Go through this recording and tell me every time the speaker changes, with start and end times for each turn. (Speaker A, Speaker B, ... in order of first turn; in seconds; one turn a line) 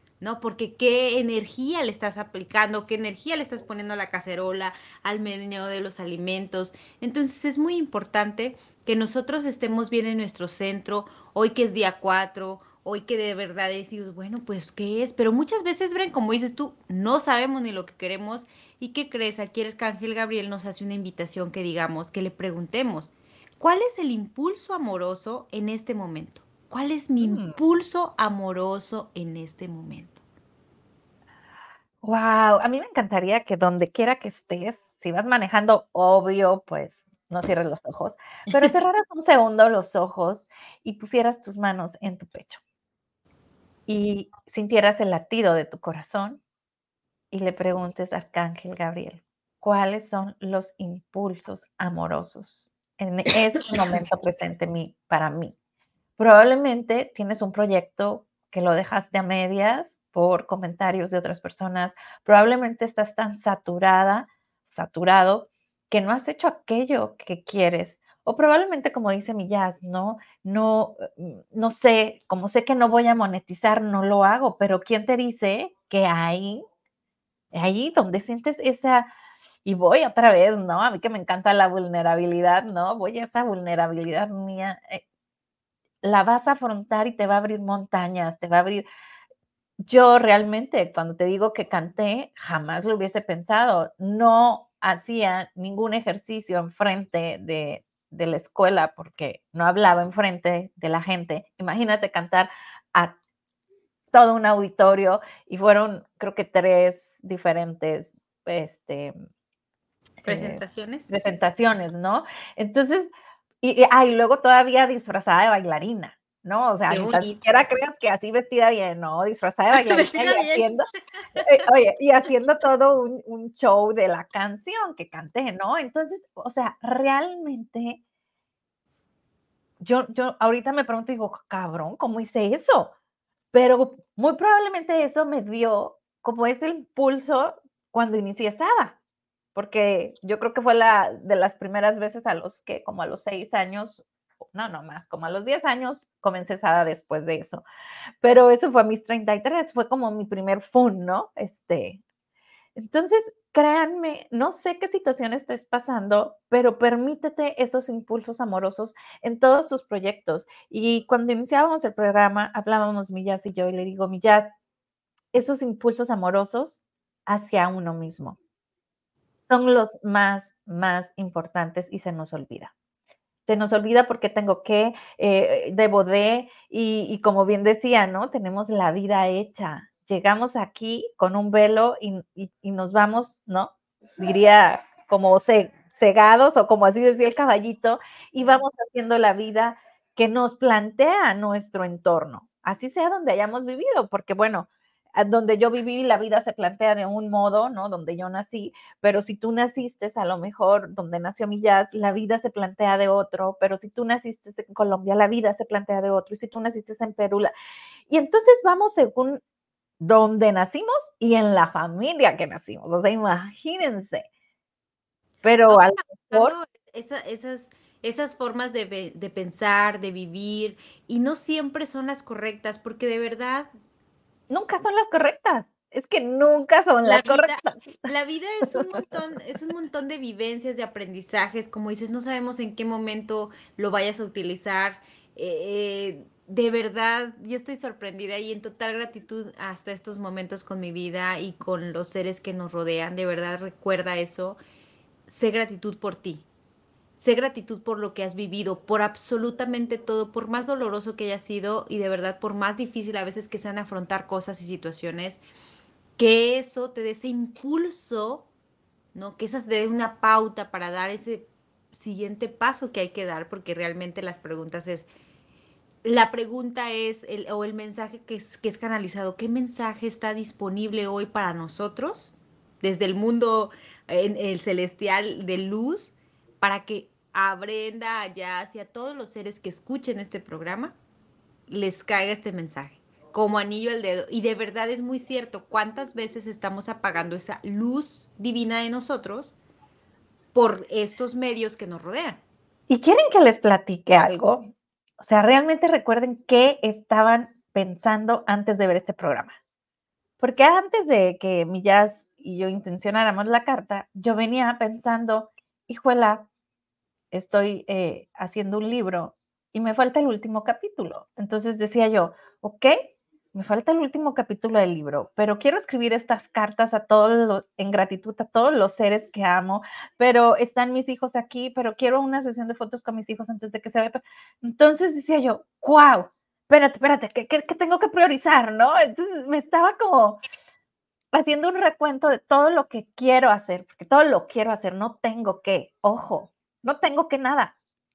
Speaker A: 0.2-30.2
Speaker B: 27.2-27.6
Speaker B: 32.0-42.6
Speaker B: 43.9-46.4
Speaker B: 47.3-55.6
Speaker A: 53.6-54.0
Speaker B: 56.2-76.6
Speaker B: 77.5-79.1
Speaker B: 79.7-85.0
Speaker B: 86.0-88.8
Speaker B: 89.8-103.2
Speaker B: 104.1-109.1
Speaker B: 110.2-113.1
Speaker A: 110.3-111.1
Speaker B: 113.6-120.9
Speaker A: 116.9-117.4
Speaker A: 119.7-120.7
Speaker B: 121.4-128.0
Speaker B: 129.8-132.9
Speaker B: 133.5-139.0
Speaker B: 139.6-147.6
Speaker B: 148.2-152.0
Speaker B: 152.8-164.5
Speaker B: 165.3-168.4
Speaker B: 169.5-172.7
Speaker B: 173.5-207.5
Speaker B: 208.1-209.4
Speaker B: 210.0-214.3
Speaker B: 215.4-216.6
Speaker A: 215.7-223.7
Speaker B: 224.5-228.1
Speaker A: 227.0-244.6
Speaker B: 228.6-229.0
Speaker A: 245.3-246.4
Speaker A: 247.2-255.4
Speaker A: 256.2-258.5
Speaker A: 259.1-265.1
Speaker A: 266.0-280.9
Speaker A: 281.7-289.6
Speaker A: 290.5-292.4
Speaker B: 292.9-299.6
Speaker B: 300.4-306.5
Speaker B: 307.3-330.4
Speaker B: 331.3-337.8